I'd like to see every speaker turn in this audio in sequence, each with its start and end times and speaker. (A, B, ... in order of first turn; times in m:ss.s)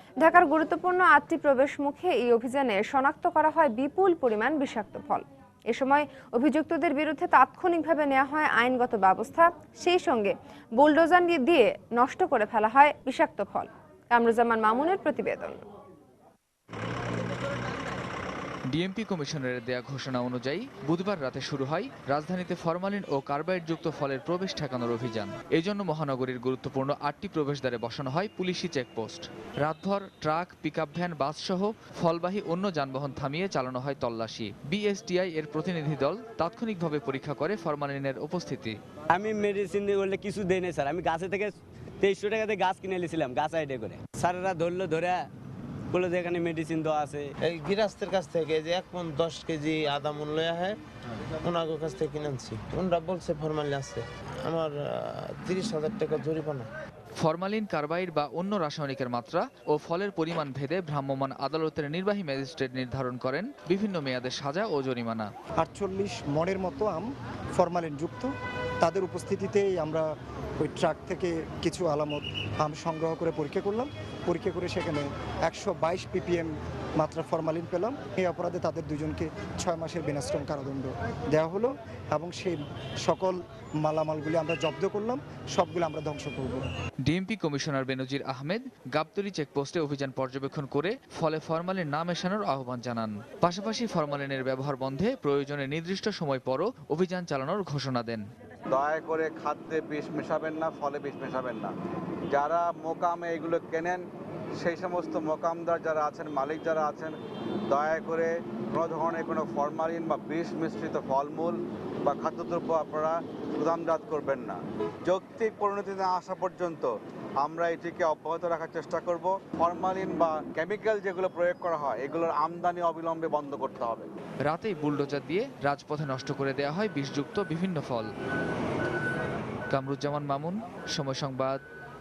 0:00.2-0:15.6 A
0:18.7-0:38.8 B
0:39.1-0:45.3 C
0:45.9-0:47.3 C
0:47.4-0:50.8 D
0:51.4-0:56.7 D
0:57.2-1:05.3 B
1:05.6-1:10.0 E
1:10.6-1:26.7 E
1:27.0-1:38.2 B
1:38.7-1:41.7 F
1:42.3-1:44.0 F
1:44.6-1:47.1 F
1:47.7-2:04.1 F
2:04.5-2:08.1 B
2:09.7-2:11.6 B